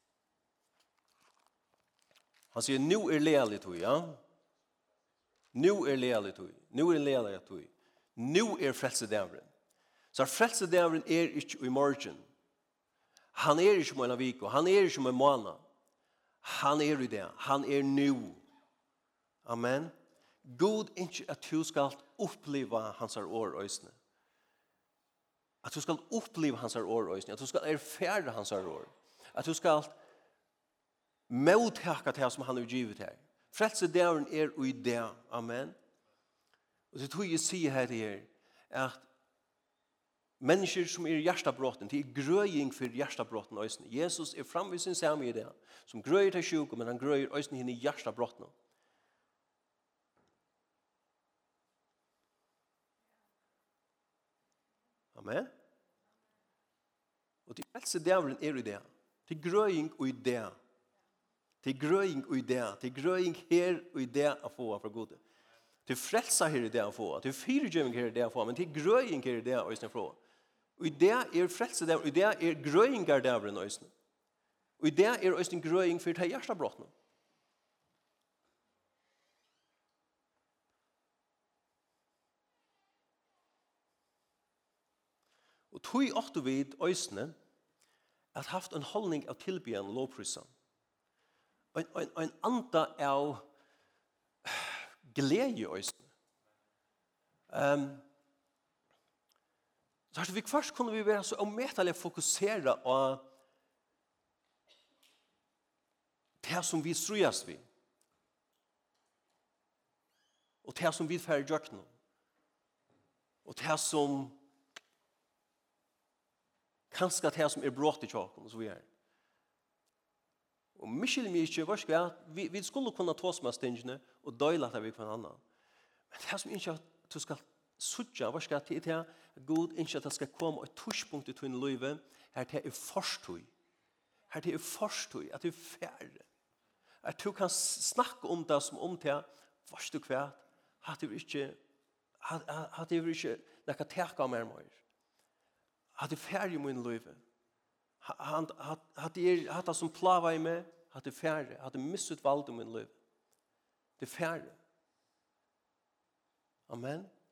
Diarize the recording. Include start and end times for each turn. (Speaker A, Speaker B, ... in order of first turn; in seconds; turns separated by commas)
Speaker A: 2.5-4.2, Speaker A: 5.5-9.5, Speaker A: 10.1-12.2, Speaker A: 13.3-15.6, Speaker A: 16.4-18.4, Speaker A: 19.4-19.9, Speaker A: 20.5-23.9, Speaker A: 25.6-29.9, Speaker A: 31.3-35.8, Speaker A: 36.9-39.1, Speaker A: 40.4-48.5, Speaker A: 55.1-55.5, Speaker A: 57.5-60.5, Speaker A: 61.6-65.2, Speaker A: 65.9-70.2, Speaker A: 70.8-73.9, Speaker A: 74.8-76.9, Speaker A: 85.7-87.3, Speaker A: 88.3-90.5, Speaker A: 91.7-93.5, Speaker A: 94.5-96.1, Speaker A: 97.5-98.0, Speaker A: 100.1-103.3, Speaker A: 106.4-107.6, Speaker A: 110.6-111.9, Speaker A: 113.5-114.4, Speaker A: 116.9-118.9, Speaker A: 120.8-125.4, Speaker A: 126.1-133.5, Speaker A: 134.3-136.2, Speaker A: 137.0-141.6, Speaker A: 142.2-144.8, Speaker A: 146.0-147.2, Speaker A: 148.0-152.9, Speaker A: 154.0-154.6, Speaker A: 156.7-157.1